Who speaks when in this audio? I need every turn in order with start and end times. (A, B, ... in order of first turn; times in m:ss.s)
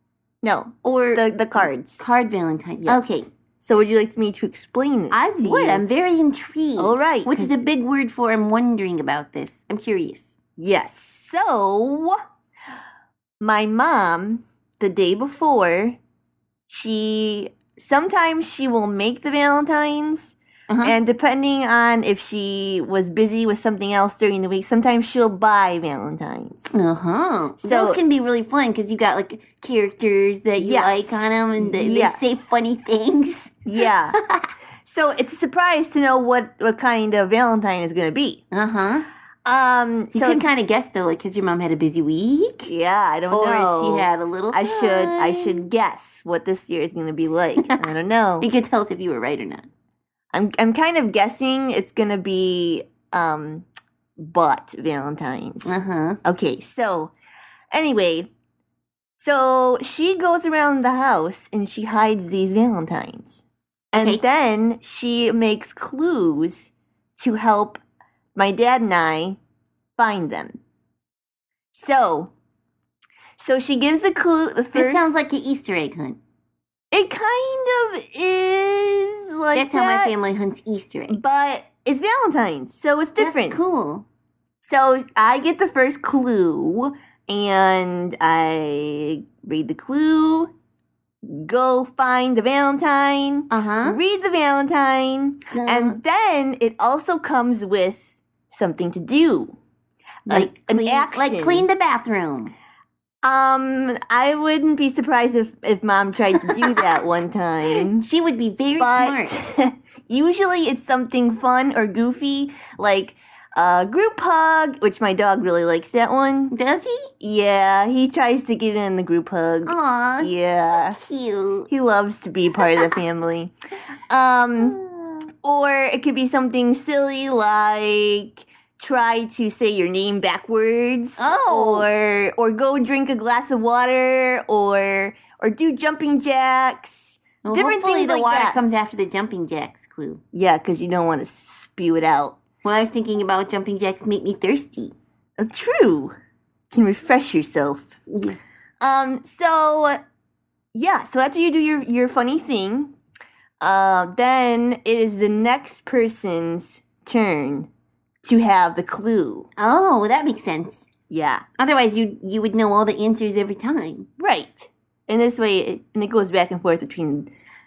0:00.4-0:02.0 A
0:00.8-0:03.3 B
0:02.8-0:05.8 A
0:05.1-0:10.4 B
0:06.8-0:07.6 A
0:10.6-0:12.2 A
0:13.4-0:16.0 A
0:16.7-0:26.7 A
0:20.7-0:21.0 B
0:26.7-0:33.6 B
0:27.6-0:28.0 A
0:30.6-0:32.3 A
0:33.6-0:34.2 A
0:34.8-0:38.4 A
0:38.5-0:39.1 B
0:39.4-0:40.4 A
0:40.1-0:42.7 B
0:42.7-0:48.5 A
0:43.3-0:45.6 B
0:48.4-0:49.6 B
0:50.3-0:53.6 A
0:54.2-0:57.1 A
0:55.6-0:56.2 B
0:57.7-0:58.3 A
0:59.2-1:03.4 A
1:03.9-1:07.8 A
1:03.9-1:04.2 B
1:08.4-1:09.4 A
1:10.0-1:10.6 A
1:11.7-1:12.3 A
1:13.4-1:15.1 A
1:14.7-1:16.2 B
1:16.9-1:20.1 A
1:19.5-1:21.2 B
1:21.1-1:23.6 A
1:23.2-1:24.0 B
1:24.6-1:30.5 A
1:31.2-1:39.6 A
1:33.5-1:34.0 B
1:35.5-1:36.0 B
1:40.2-1:41.6 A
1:40.3-1:42.5 B
1:43.2-1:48.0 A
1:47.6-1:49.4 B
1:48.8-1:56.5 A
1:56.5-1:57.1 B
1:57.2-2:01.0 A
1:59.6-2:01.7 B
2:01.7-2:03.5 A
2:04.1-2:04.8 A
2:04.8-2:05.1 B
2:05.4-2:18.6 A
2:11.2-2:11.9 B
2:17.4-2:20.2 B
2:20.3-2:22.4 A
2:22.6-2:24.9 B
2:25.4-2:26.1 A
2:26.7-2:27.9 A
2:28.1-2:28.4 B
2:28.8-2:30.0 A
2:30.7-2:32.9 A
2:33.6-2:37.7 A
2:38.2-2:39.5 A
2:39.6-2:40.9 B
2:41.1-2:41.4 A
2:41.6-2:44.1 B
2:44.2-2:47.3 A